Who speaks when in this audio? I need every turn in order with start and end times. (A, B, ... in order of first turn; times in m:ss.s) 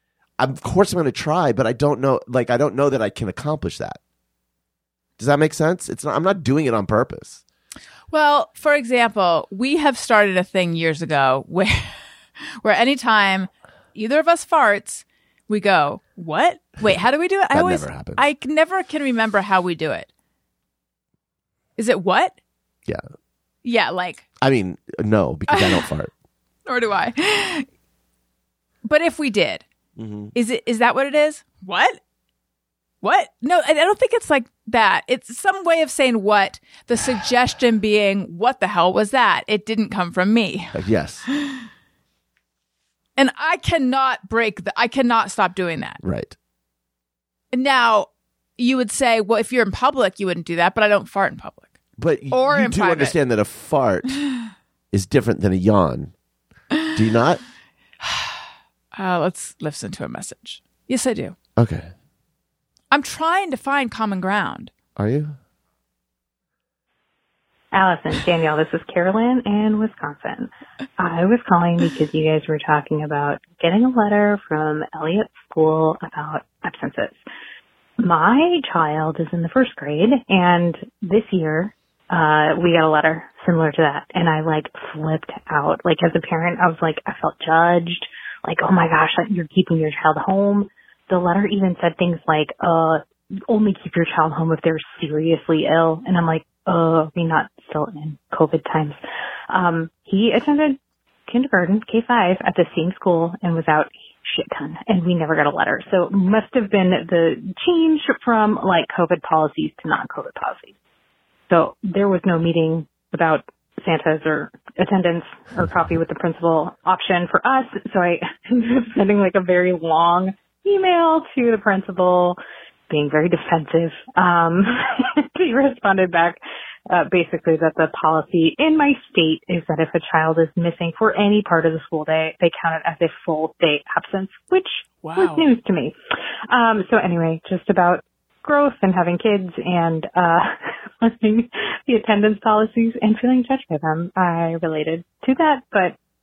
0:00.4-0:04.0 A
0:05.2-0:07.4 A
0:08.1-0:11.9 B
0:12.6-0:20.1 B
0:17.5-0:18.2 A
0:21.8-0:22.3 B
0:23.6-0:24.2 B
0:24.4-0:26.1 A
0:25.5-0:25.8 B
0:26.6-0:27.7 B
0:28.8-0:29.6 B
0:30.0-0:30.3 A
0:30.3-0:32.0 B
0:33.0-0:40.8 B
0:40.7-0:41.2 A
0:41.3-0:41.6 B
0:43.2-0:46.0 B
0:46.0-0:46.3 A
0:47.5-0:51.7 B
0:52.0-0:54.2 A
0:52.3-0:53.2 B
0:54.9-0:56.1 A
0:56.9-0:57.4 A
0:58.0-0:58.4 B
0:59.0-1:01.3 B
1:01.6-1:01.9 A
1:02.9-1:04.7 B
1:05.0-1:05.3 A
1:07.7-1:17.2 C
1:18.0-1:39.0 C
1:39.5-1:50.7 C
1:51.5-2:02.4 C
2:02.9-2:16.0 C
2:15.0-2:15.5 B
2:16.5-2:26.0 C